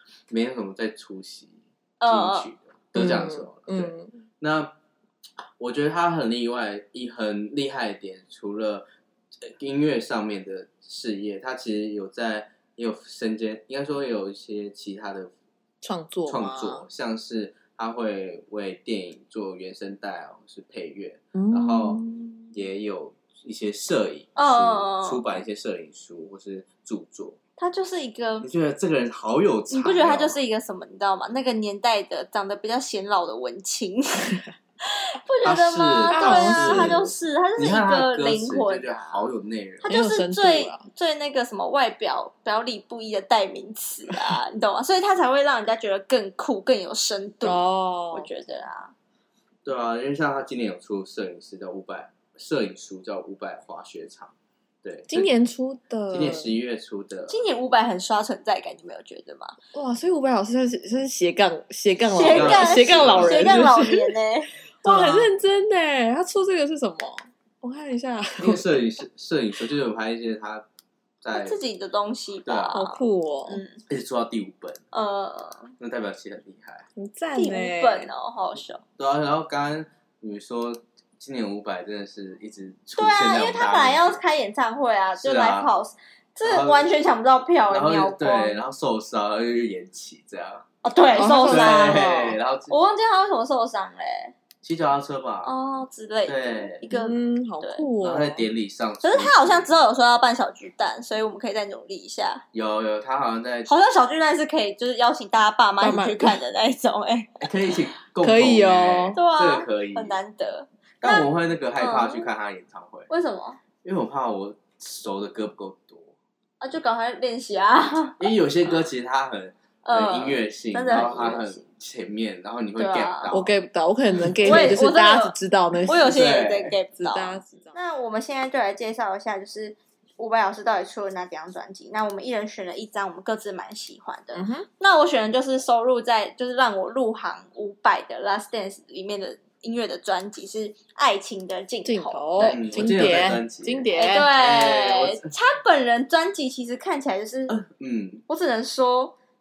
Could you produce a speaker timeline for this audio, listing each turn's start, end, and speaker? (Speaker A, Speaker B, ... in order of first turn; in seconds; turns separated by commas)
Speaker A: 0.3-4.7, Speaker B: 2.0-2.5, Speaker C: 3.0-4.1, Speaker A: 5.6-8.8, Speaker A: 9.4-15.3, Speaker C: 15.8-16.8, Speaker A: 16.3-27.4, Speaker C: 21.3-22.5, Speaker B: 24.4-25.2, Speaker B: 27.6-28.5, Speaker A: 28.4-30.4, Speaker B: 29.7-39.3, Speaker A: 35.4-40.0, Speaker C: 36.1-37.0, Speaker C: 39.8-40.9, Speaker B: 39.8-48.9, Speaker C: 47.4-48.3, Speaker A: 49.6-55.3, Speaker C: 55.1-56.6, Speaker A: 56.1-57.4, Speaker B: 57.3-59.6, Speaker C: 59.7-64.1, Speaker B: 62.1-64.5, Speaker A: 62.2-63.7, Speaker C: 64.8-68.6, Speaker A: 64.8-65.3, Speaker A: 68.4-70.6, Speaker A: 71.2-71.6, Speaker B: 71.3-73.8, Speaker A: 72.5-72.8, Speaker C: 72.7-73.6, Speaker A: 73.9-74.8, Speaker B: 74.9-75.7, Speaker A: 75.8-76.8, Speaker C: 77.0-78.1, Speaker B: 77.3-78.8, Speaker A: 79.0-84.2, Speaker B: 83.0-88.5, Speaker A: 85.2-85.7, Speaker A: 86.4-86.9, Speaker A: 87.7-90.6, Speaker B: 90.8-94.3, Speaker C: 91.1-92.4, Speaker A: 91.5-92.7, Speaker A: 94.6-95.5, Speaker B: 95.4-97.8, Speaker A: 96.2-96.8, Speaker C: 96.9-98.5, Speaker A: 98.0-99.7, Speaker B: 99.0-102.4, Speaker A: 102.5-103.7, Speaker B: 103.7-107.4, Speaker C: 105.8-106.4, Speaker A: 107.4-110.2, Speaker C: 108.2-109.2, Speaker B: 109.1-112.3, Speaker A: 111.0-113.1, Speaker B: 113.1-113.6, Speaker A: 113.8-116.1, Speaker B: 116.6-118.7, Speaker A: 118.2-123.5, Speaker B: 119.8-121.6, Speaker B: 122.8-123.3, Speaker C: 123.3-126.1, Speaker A: 124.2-124.7, Speaker B: 124.4-125.3, Speaker B: 125.9-142.8, Speaker A: 126.0-126.8, Speaker C: 127.0-127.8, Speaker C: 134.3-134.7, Speaker C: 141.8-144.3, Speaker A: 142.4-145.3, Speaker B: 143.9-147.6, Speaker A: 147.5-148.2, Speaker B: 148.3-149.2